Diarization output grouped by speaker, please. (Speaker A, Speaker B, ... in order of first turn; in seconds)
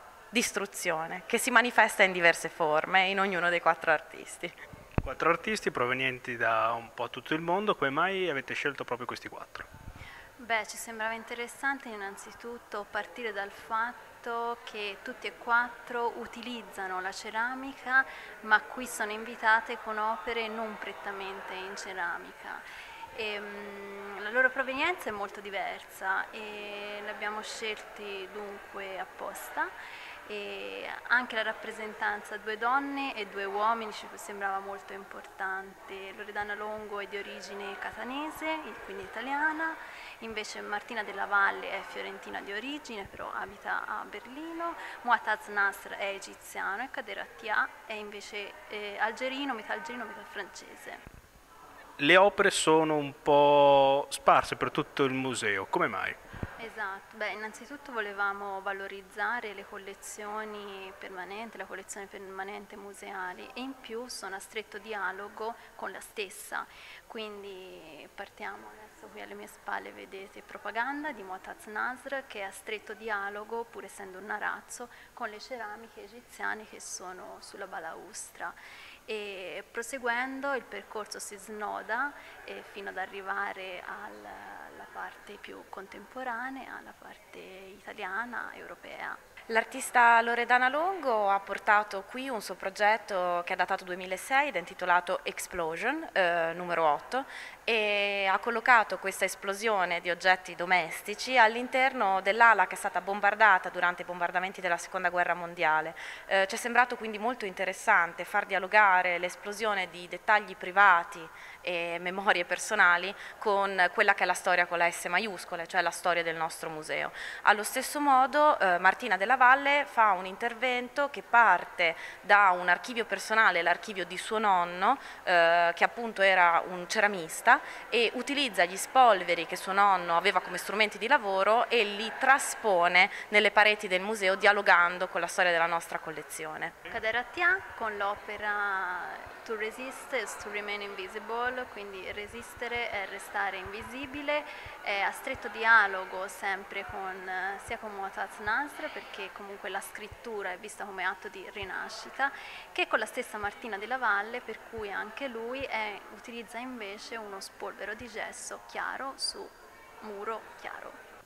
Speaker A: 0.3-4.5, 89.5-136.7
Speaker B: 5.0-9.7, 52.0-56.2
Speaker C: 10.4-22.6, 23.1-29.7, 30.2-51.0, 56.6-78.5, 79.1-89.2, 136.9-161.0